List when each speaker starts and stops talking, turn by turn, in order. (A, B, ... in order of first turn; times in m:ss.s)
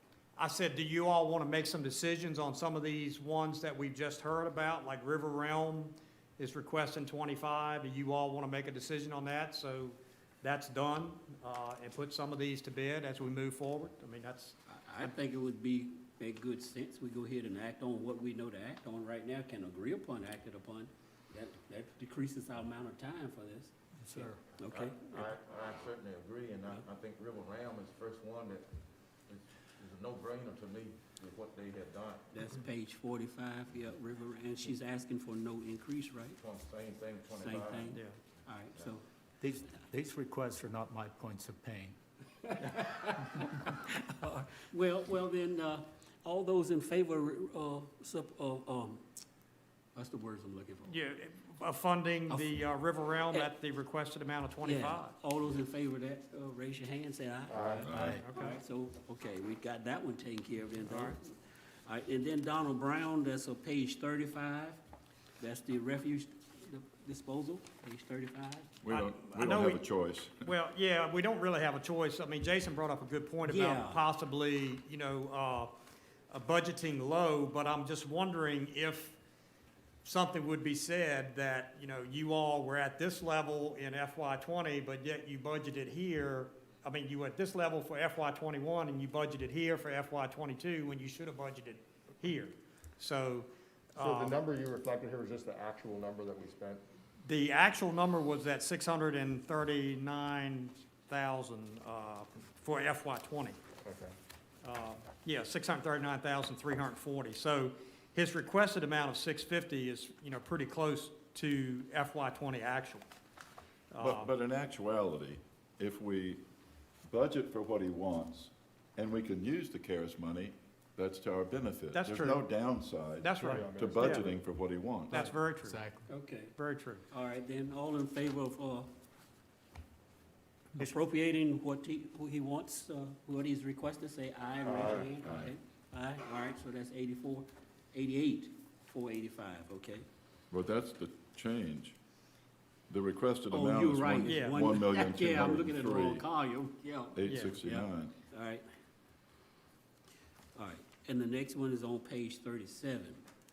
0:00.4-0:14.6 A
0:14.7-0:25.3 B
0:24.0-0:24.4 C
0:24.6-0:28.6 D
0:29.3-0:32.2 D
0:32.3-0:36.4 B
0:36.4-0:38.0 D
0:37.4-0:39.0 B
0:39.4-0:42.0 C
0:42.5-0:49.0 B
0:43.1-0:43.7 C
0:49.9-0:51.0 B
0:50.8-0:55.1 A
0:52.3-0:52.6 B
0:54.6-1:04.8 B
0:57.5-0:57.9 E
0:57.8-0:58.2 F
0:58.0-0:58.2 C
0:58.1-0:58.6 A
1:00.9-1:01.2 A
1:05.4-1:08.8 B
1:08.8-1:10.5 F
1:08.9-1:09.8 A
1:10.4-1:15.7 A
1:13.4-1:14.0 B
1:16.3-1:19.2 A
1:20.0-1:34.4 A
1:34.0-1:36.8 E
1:37.2-1:43.6 A
1:43.8-1:44.1 E
1:44.6-1:53.0 A
1:53.9-1:54.3 A
1:54.0-1:56.4 F
1:57.1-2:05.3 F
2:01.9-2:02.4 A
2:03.2-2:04.2 A
2:03.4-2:04.3 E
2:05.1-2:05.8 A
2:05.6-2:06.1 C
2:06.1-2:06.6 B
2:06.6-2:07.0 A
2:07.1-2:08.9 B
2:10.8-2:20.0 B
2:14.6-2:15.2 E
2:15.2-2:15.5 F
2:20.5-2:22.0 F
2:22.9-2:26.2 F
2:23.5-2:28.6 B
2:24.2-2:24.6 A
2:27.2-2:28.1 F
2:27.3-2:27.5 A
2:30.5-2:33.2 B